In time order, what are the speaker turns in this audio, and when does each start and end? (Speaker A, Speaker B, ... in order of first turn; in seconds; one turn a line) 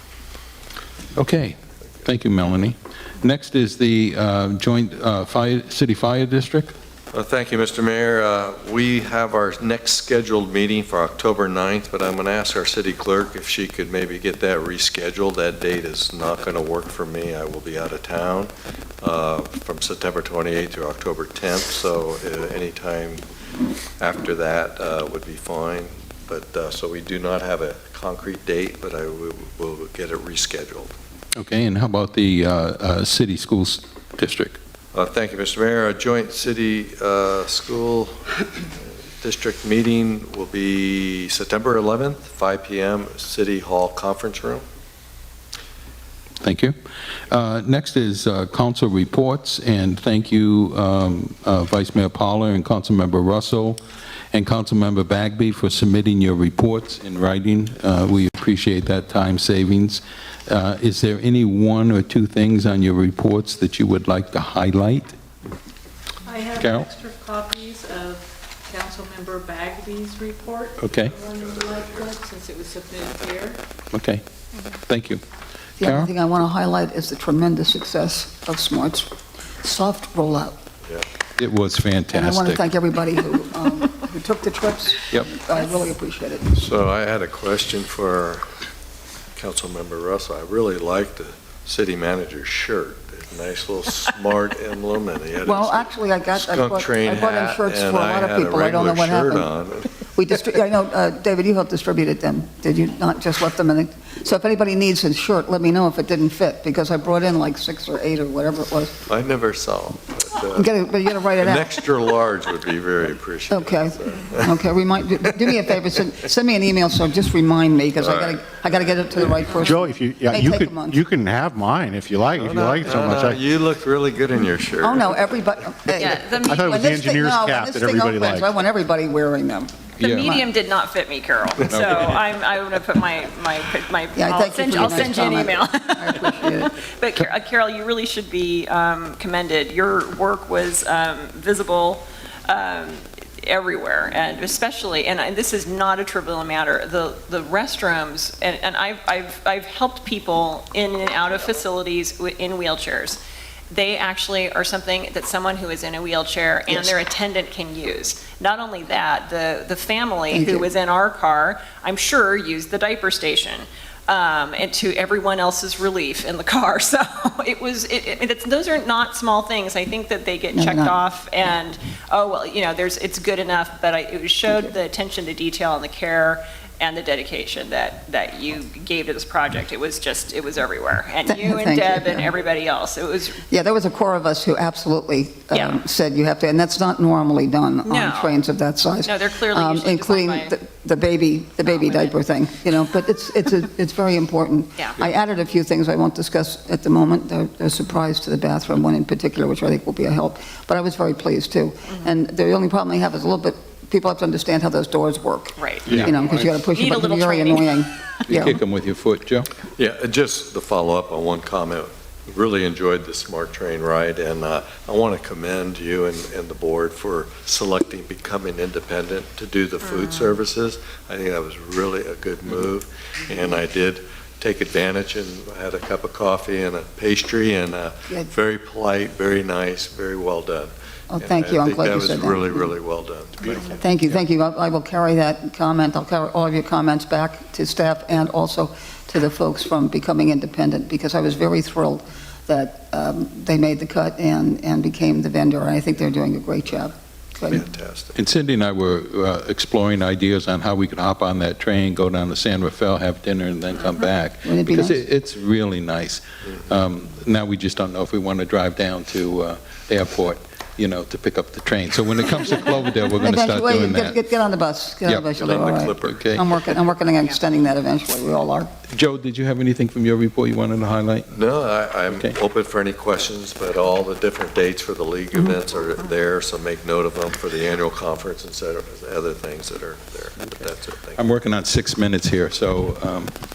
Speaker A: 1.1-6.7
Speaker B: 7.1-23.2
Speaker B: 24.0-31.0
Speaker A: 31.4-34.6
Speaker B: 34.9-38.2
Speaker B: 39.2-44.6
Speaker A: 46.4-46.7
Speaker A: 47.3-53.8
Speaker A: 54.3-65.2
Speaker C: 66.2-73.6
Speaker A: 66.6-66.9
Speaker A: 70.8-71.1
Speaker B: 71.2-72.1
Speaker A: 73.9-74.2
Speaker A: 74.9-75.2
Speaker D: 75.8-79.1
Speaker A: 75.8-76.1
Speaker D: 79.6-80.6
Speaker A: 81.4-82.7
Speaker D: 82.1-86.5
Speaker B: 86.5-88.5
Speaker B: 89.3-99.9
Speaker D: 95.4-99.5
Speaker D: 100.1-109.0
Speaker B: 109.1-110.7
Speaker D: 110.5-111.7
Speaker B: 111.4-114.7
Speaker D: 113.5-121.0
Speaker B: 118.0-118.4
Speaker E: 119.7-123.4
Speaker B: 122.3-125.3
Speaker D: 124.8-130.4
Speaker F: 125.9-126.9
Speaker E: 126.4-128.5
Speaker A: 130.0-130.4
Speaker F: 130.0-183.4
Speaker A: 131.7-132.0
Speaker B: 131.8-132.1
Speaker D: 134.2-136.8
Speaker D: 156.7-156.9
Speaker D: 160.3-160.7
Speaker D: 170.5-170.9
Speaker D: 181.2-182.3
Speaker D: 183.5-208.6
Speaker F: 185.5-185.8
Speaker F: 187.8-188.4
Speaker F: 189.0-190.5
Speaker F: 191.7-192.1
Speaker F: 205.6-207.7
Speaker A: 208.3-209.5
Speaker B: 209.7-233.8
Speaker F: 219.9-220.3
Speaker D: 231.1-232.7
Speaker D: 233.7-247.6
Speaker B: 247.5-248.2
Speaker A: 248.1-264.2
Speaker D: 254.4-255.0
Speaker D: 263.2-268.7
Speaker A: 265.0-266.4
Speaker B: 265.4-266.4
Speaker A: 268.9-271.3
Speaker B: 271.3-281.2
Speaker A: 281.2-283.3